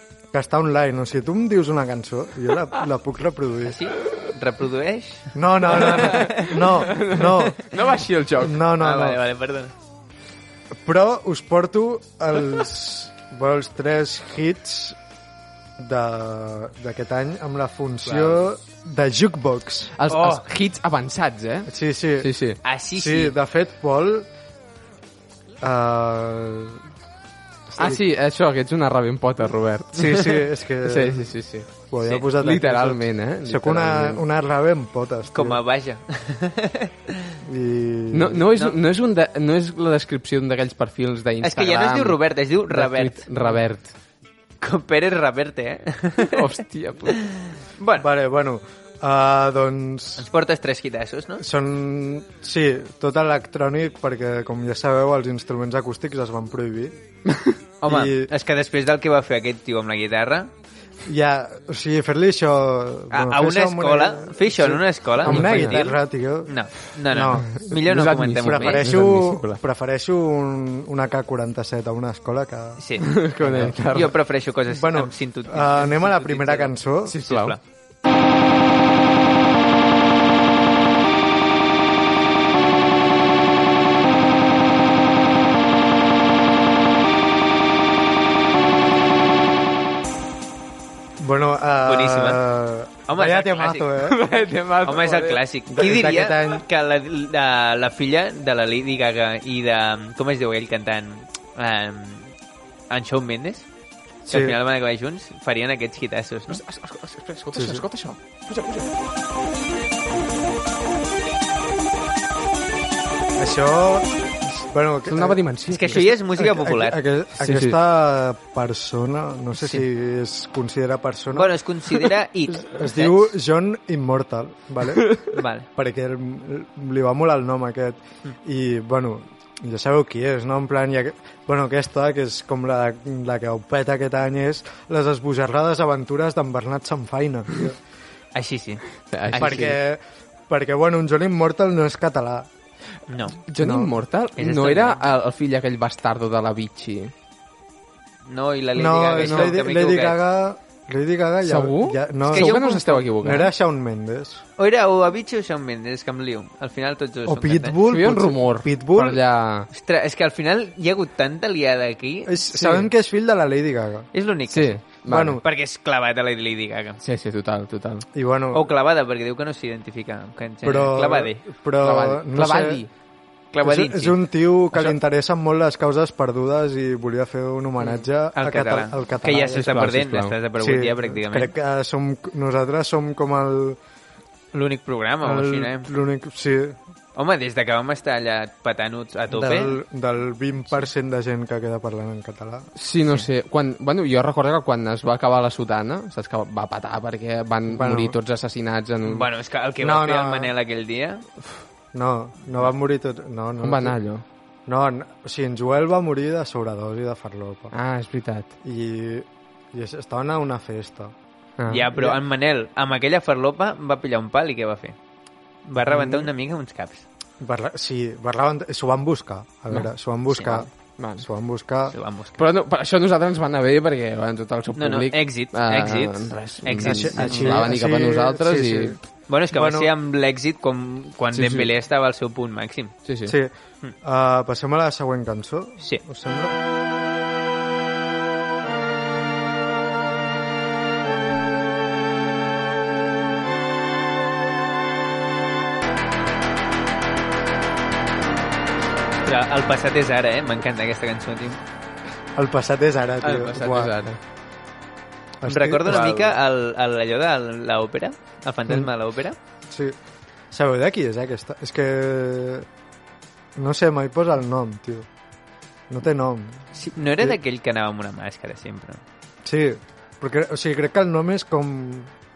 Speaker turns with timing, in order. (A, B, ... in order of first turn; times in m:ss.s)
0:00.3-0:03.8 A
0:03.6-0:06.5 B
0:05.3-0:07.6 A
0:05.8-0:08.6 C
0:08.4-0:09.2 A
0:08.8-0:09.7 B
0:10.8-0:15.0 A
0:15.8-0:19.9 A
0:20.0-0:22.6 C
0:20.1-0:20.4 B
0:21.7-0:22.3 A
0:22.6-0:23.4 B
0:22.9-0:24.2 A
0:25.6-0:26.8 A
0:27.7-0:28.0 A
0:27.7-0:31.7 C
0:29.9-0:31.3 A
0:31.9-0:35.6 A
0:32.3-0:34.2 C
0:35.3-0:37.3 B
0:37.4-0:38.5 A
0:38.1-0:43.9 C
0:41.4-0:43.4 B
0:44.6-0:46.4 B
0:46.2-0:47.2 C
0:47.1-0:48.1 B
0:48.0-0:50.2 A
0:50.2-0:51.4 B
0:51.4-0:56.9 A
0:57.2-0:57.6 C
0:57.8-1:00.5 B
0:57.8-0:58.3 A
1:01.0-1:06.5 A
1:03.1-1:08.9 B
1:05.2-1:05.8 C
1:07.1-1:07.7 A
1:07.7-1:09.6 C
1:08.4-1:12.8 A
1:12.8-1:13.1 B
1:13.0-1:14.2 C
1:13.4-1:13.8 A
1:13.9-1:17.6 B
1:14.7-1:17.2 A
1:17.1-1:17.6 C
1:31.2-1:34.2 A
1:31.8-1:32.4 B
1:33.1-1:33.9 B
1:34.0-1:35.4 C
1:34.8-1:42.3 B
1:35.7-1:36.6 A
1:42.9-1:43.6 B
1:44.3-1:46.6 B
1:44.3-1:44.6 A
1:46.5-1:48.9 C
1:47.5-1:47.8 A
1:53.4-1:55.4 A
1:55.0-1:56.1 C
1:55.7-1:57.0 B
1:56.4-2:01.5 A
1:57.4-1:57.8 C
2:01.3-2:03.3 B
2:02.6-2:05.1 A
2:05.0-2:05.3 C
2:05.3-2:05.7 B
2:05.7-2:17.8 A
2:18.3-2:19.7 B
2:19.1-2:19.8 C
2:19.4-2:22.5 A
2:23.1-2:23.4 B
2:23.5-2:27.1 C
2:23.6-2:23.9 A
2:24.4-2:25.0 B
2:28.3-2:30.2 B
2:28.8-2:34.4 A
2:29.2-2:29.6 C
2:31.4-2:33.5 C
2:32.3-2:33.0 B
2:34.6-2:37.8 B
2:37.2-2:39.2 A
2:37.8-2:39.7 C
2:39.7-2:42.3 B
2:42.3-2:44.1 A
2:42.5-2:42.9 C
2:44.1-2:47.0 B
2:44.5-2:45.4 C
2:45.1-2:45.4 A
2:47.0-2:48.0 C
2:48.1-2:48.6 A
2:48.5-2:51.4 B
2:50.6-2:52.8 A
2:51.8-2:52.9 C
2:53.5-2:54.2 B
2:53.6-2:59.9 A
2:57.8-3:01.5 B
2:59.4-3:00.4 C
3:00.6-3:03.8 A
3:04.5-3:05.9 B
3:05.2-3:06.8 A
3:07.1-3:09.8 B
3:09.3-3:12.7 A
3:12.8-3:19.3 C
3:17.7-3:18.2 A
3:19.0-3:21.2 B
3:19.8-3:20.5 A
3:21.9-3:24.0 A
3:23.6-3:24.2 C
3:24.7-3:27.7 A
3:27.7-3:28.5 C
3:28.6-3:31.1 A
3:31.6-3:31.9 C
3:31.7-3:35.0 B
3:35.6-3:37.0 B
3:35.8-3:36.3 A
3:37.4-3:41.9 A
3:40.3-3:40.6 B
3:41.0-3:41.2 C
3:41.9-3:42.4 B
3:42.4-3:49.0 C
3:44.8-3:47.6 B
3:46.8-3:49.0 A
3:49.3-3:52.9 B
3:49.5-3:49.9 A
3:51.3-3:51.7 C
3:53.0-3:53.3 C
3:53.3-3:56.5 A
4:09.2-4:11.6 B
4:12.4-4:13.9 A
4:13.2-4:14.2 C
4:15.4-4:16.3 A
4:15.5-4:19.4 B
4:19.7-4:20.0 A
4:20.5-4:22.6 A
4:23.6-4:25.1 A
4:25.9-4:26.6 A
4:26.7-4:29.0 B
4:29.4-4:32.1 A